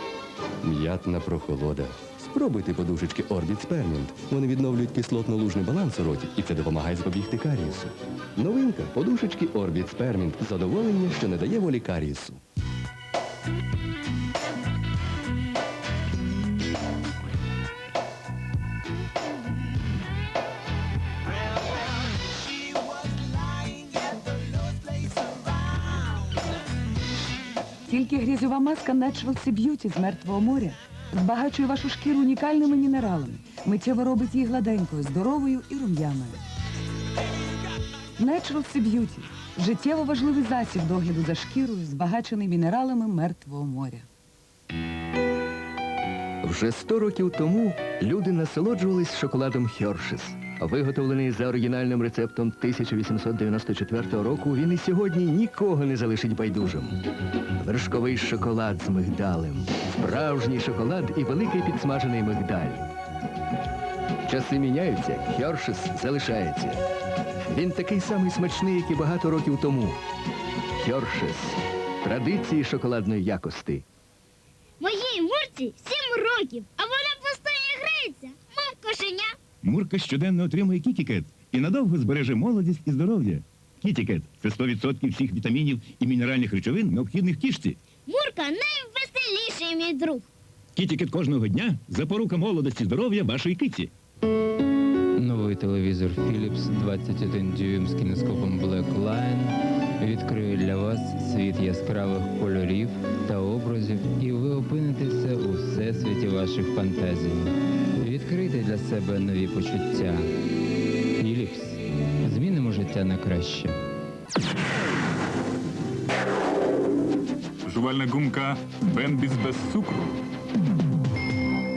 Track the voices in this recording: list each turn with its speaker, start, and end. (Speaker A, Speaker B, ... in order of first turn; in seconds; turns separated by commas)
Speaker A: 0.6-12.4, Speaker B: 27.9-36.4, Speaker B: 38.2-44.0, Speaker C: 46.4-57.0, Speaker C: 57.6-62.9, Speaker C: 64.2-66.8, Speaker C: 67.5-70.0, Speaker C: 70.8-73.8, Speaker D: 74.8-79.4, Speaker E: 79.6-87.8, Speaker D: 88.0-90.2, Speaker E: 90.8-93.9, Speaker F: 95.2-110.3, Speaker F: 111.2-113.8, Speaker G: 117.7-120.2